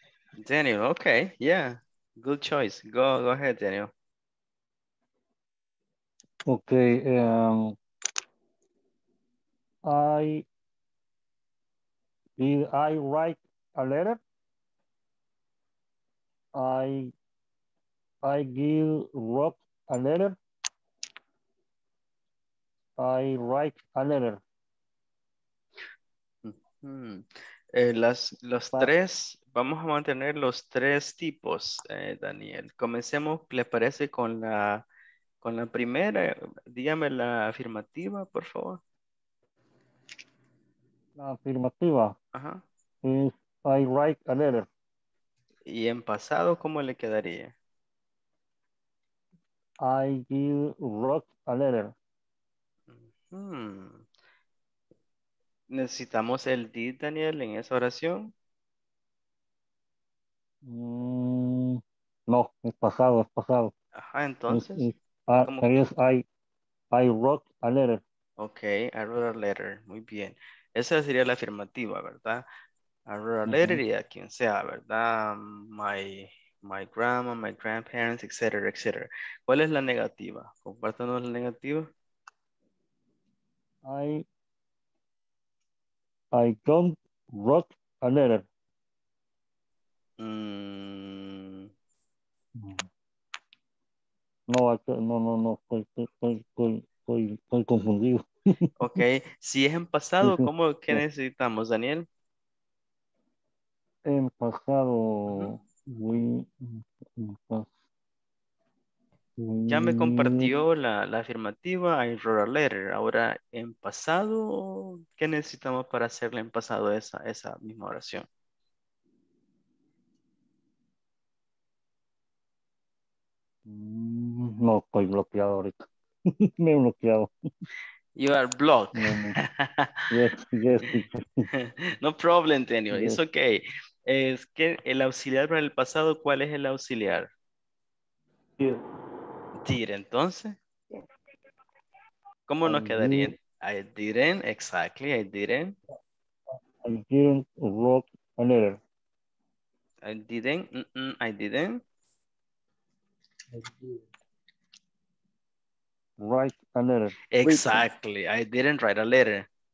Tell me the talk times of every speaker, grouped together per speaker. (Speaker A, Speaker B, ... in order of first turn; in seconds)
Speaker A: 0.4-3.9, 26.4-34.8, 35.4-38.8, 42.4-42.6, 45.7-47.5, 52.9-54.0, 55.7-58.3, 64.0-64.9, 65.4-65.8, 68.4-72.4, 73.1-81.9, 90.2-91.7, 98.8-102.1, 105.3-105.5, 109.7-118.3, 128.2-130.1, 131.5-137.3, 139.6-140.6, 142.5-145.8, 150.0-151.8, 157.3-159.5
Speaker B: 6.5-7.8, 9.8-10.4, 12.4-14.2, 16.6-17.1, 18.2-20.4, 23.0-24.4, 41.2-42.1, 43.0-44.7, 49.9-51.9, 60.6-63.7, 64.5-66.2, 66.9-68.0, 73.5-73.8, 83.9-84.2, 86.3-88.5, 92.6-92.9, 94.5-98.7, 100.2-101.0, 104.1-107.7, 109.4-110.5, 123.7-127.3, 129.0-129.4, 130.1-131.5, 132.9-133.2, 142.7-143.4, 146.8-148.8, 153.6-153.9, 156.2-157.9